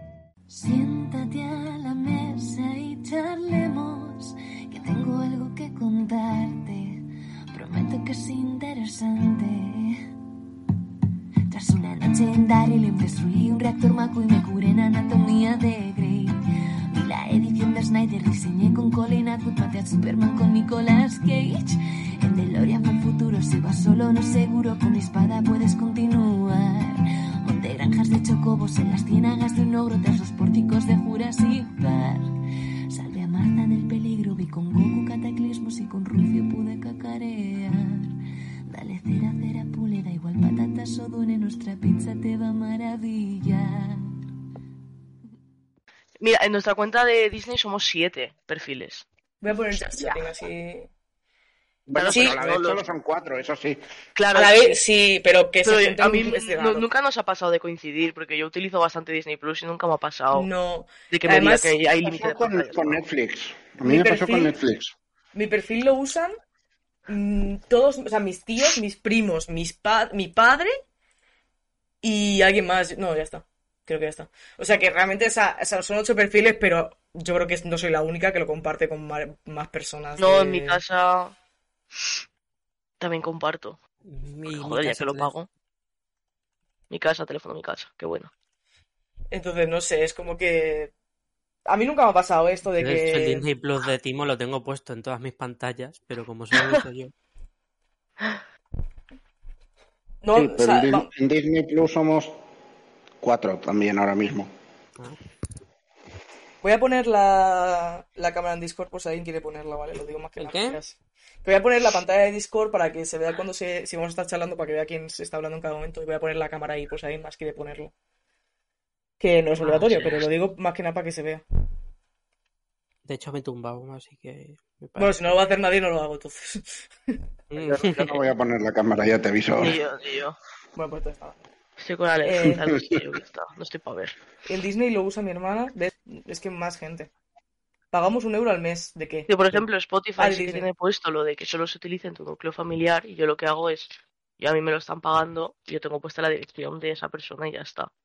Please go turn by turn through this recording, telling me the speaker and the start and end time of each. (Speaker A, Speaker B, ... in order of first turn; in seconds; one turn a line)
Speaker A: 0.5-10.1
Speaker A: 11.5-16.4
Speaker A: 16.9-32.4
Speaker A: 32.9-44.1
Speaker B: 46.2-49.1
Speaker C: 49.4-50.9
Speaker B: 49.8-50.2
Speaker D: 51.9-53.8
Speaker B: 52.0-52.8
Speaker C: 52.1-52.4
Speaker B: 54.2-54.8
Speaker C: 54.3-56.9
Speaker B: 55.6-60.5
Speaker C: 60.3-61.8
Speaker B: 61.1-63.0
Speaker D: 62.0-64.9
Speaker C: 63.9-64.6
Speaker C: 65.3-66.3
Speaker C: 67.1-70.8
Speaker C: 72.0-80.8
Speaker B: 80.2-81.3
Speaker B: 83.0-83.8
Speaker E: 84.1-85.3
Speaker B: 84.5-85.5
Speaker B: 86.9-88.3
Speaker C: 89.3-90.9
Speaker C: 91.7-93.5
Speaker E: 92.8-97.1
Speaker B: 96.5-96.8
Speaker C: 100.2-101.1
Speaker D: 100.3-102.4
Speaker D: 103.2-104.5
Speaker C: 106.6-117.9
Speaker E: 110.4-110.8
Speaker C: 119.2-121.4
Speaker B: 119.6-120.3
Speaker E: 123.0-125.2
Speaker C: 125.0-127.2
Speaker E: 127.5-128.2
Speaker D: 127.5-129.8
Speaker B: 129.6-130.4
Speaker C: 130.8-131.4
Speaker B: 131.8-134.2
Speaker C: 132.2-132.6
Speaker C: 134.5-137.1
Speaker C: 137.9-139.4
Speaker B: 139.3-147.9
Speaker C: 140.2-140.7